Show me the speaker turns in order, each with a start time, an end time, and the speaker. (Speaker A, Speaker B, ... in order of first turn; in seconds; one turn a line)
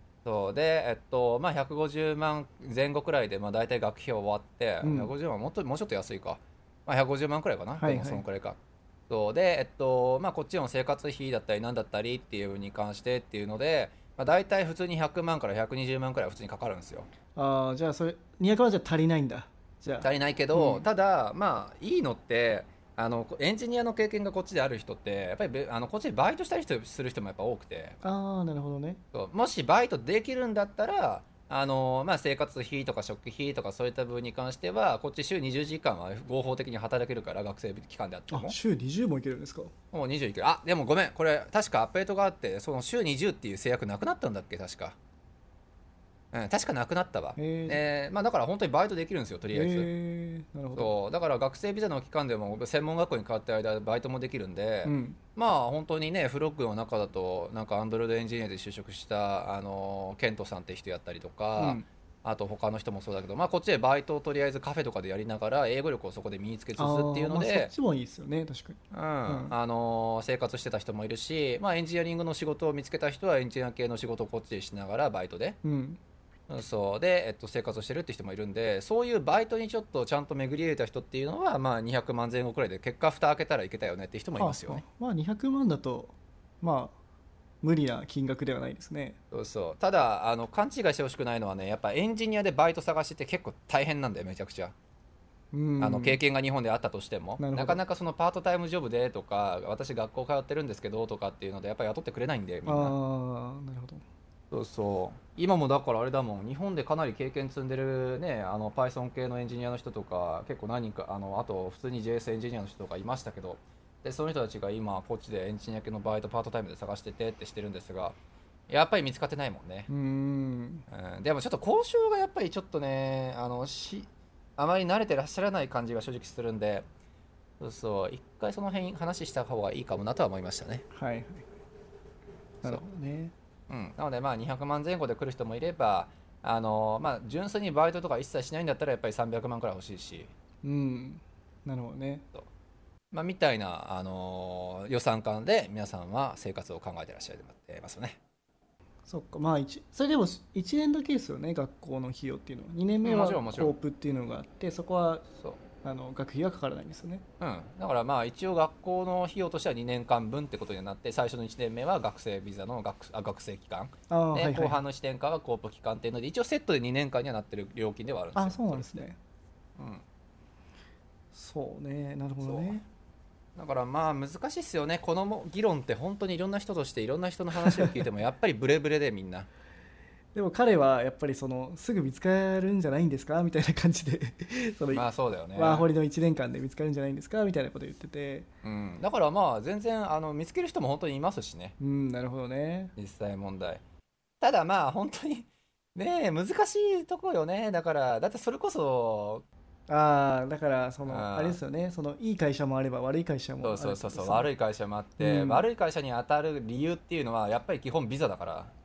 Speaker A: 0.2-17.1
Speaker B: 4.8-5.1
Speaker B: 7.8-8.2
Speaker B: 17.4-20.9
Speaker A: 20.0-28.0
Speaker B: 28.0-29.0
Speaker A: 29.1-38.6
Speaker B: 38.3-39.7
Speaker A: 39.9-45.0
Speaker A: 46.3-49.9
Speaker B: 47.4-47.8
Speaker B: 49.5-50.9
Speaker A: 50.8-67.7
Speaker B: 54.8-55.2
Speaker B: 61.6-61.9
Speaker B: 66.8-69.5
Speaker A: 68.9-75.6
Speaker B: 75.6-76.0
Speaker A: 76.5-84.8
Speaker B: 84.4-87.0
Speaker B: 87.6-89.2
Speaker A: 89.3-94.7
Speaker B: 95.5-96.2
Speaker A: 95.8-103.0
Speaker B: 97.4-97.8
Speaker B: 102.7-104.0
Speaker A: 104.5-118.2
Speaker A: 118.7-119.9
Speaker B: 119.9-120.9
Speaker A: 120.9-126.9
Speaker A: 127.6-130.8
Speaker B: 130.9-131.5
Speaker B: 132.6-133.3
Speaker A: 133.7-140.3
Speaker B: 140.6-142.3
Speaker A: 143.1-148.2
Speaker B: 149.1-155.3
Speaker A: 153.0-153.8
Speaker B: 155.8-157.2
Speaker A: 157.4-169.0
Speaker B: 164.1-164.8
Speaker B: 168.3-169.2
Speaker A: 169.8-170.0
Speaker B: 171.3-172.8
Speaker A: 172.4-172.8
Speaker A: 173.6-179.5
Speaker B: 180.3-188.5
Speaker A: 184.9-185.9
Speaker A: 188.6-191.8
Speaker B: 191.8-192.9
Speaker A: 193.0-193.8
Speaker A: 194.4-199.4
Speaker B: 199.9-204.5
Speaker A: 201.1-201.6
Speaker A: 203.6-208.7
Speaker B: 205.2-205.7